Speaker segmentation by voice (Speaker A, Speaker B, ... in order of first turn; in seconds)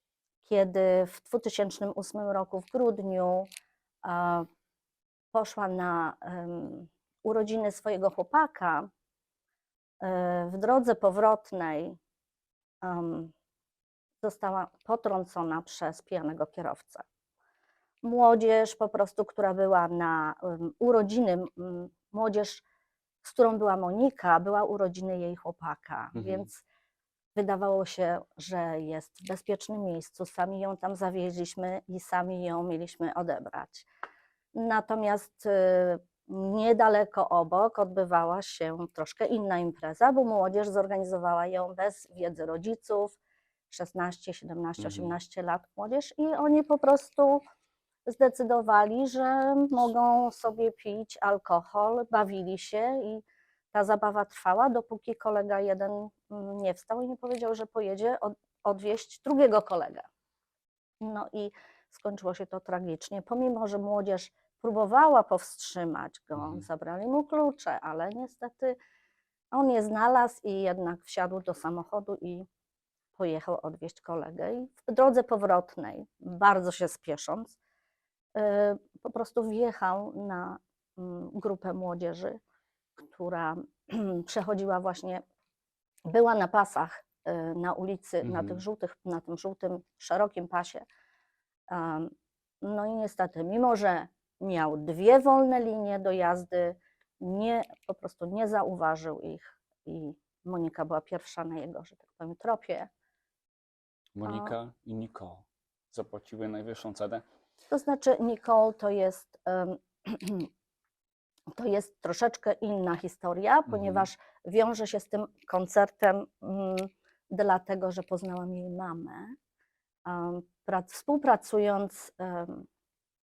Speaker A: 0.4-3.5, 4.0-4.5, 5.3-8.9, 10.0-12.0, 12.8-13.3, 14.2-17.0, 18.0-22.6, 23.2-26.6, 27.3-33.9, 34.5-43.2, 43.7-47.4, 48.0-60.1, 61.0-68.8, 69.5-72.5, 73.1-77.6, 78.3-82.4, 83.0-85.2, 86.0-90.8, 91.7-92.1, 92.6-102.9, 104.2-104.5, 107.7-110.5, 111.5-119.3, 120.0-122.7
Speaker B: 26.1-26.5, 44.8-45.2, 66.3-66.6, 88.2-88.6, 104.1-107.2, 113.7-114.1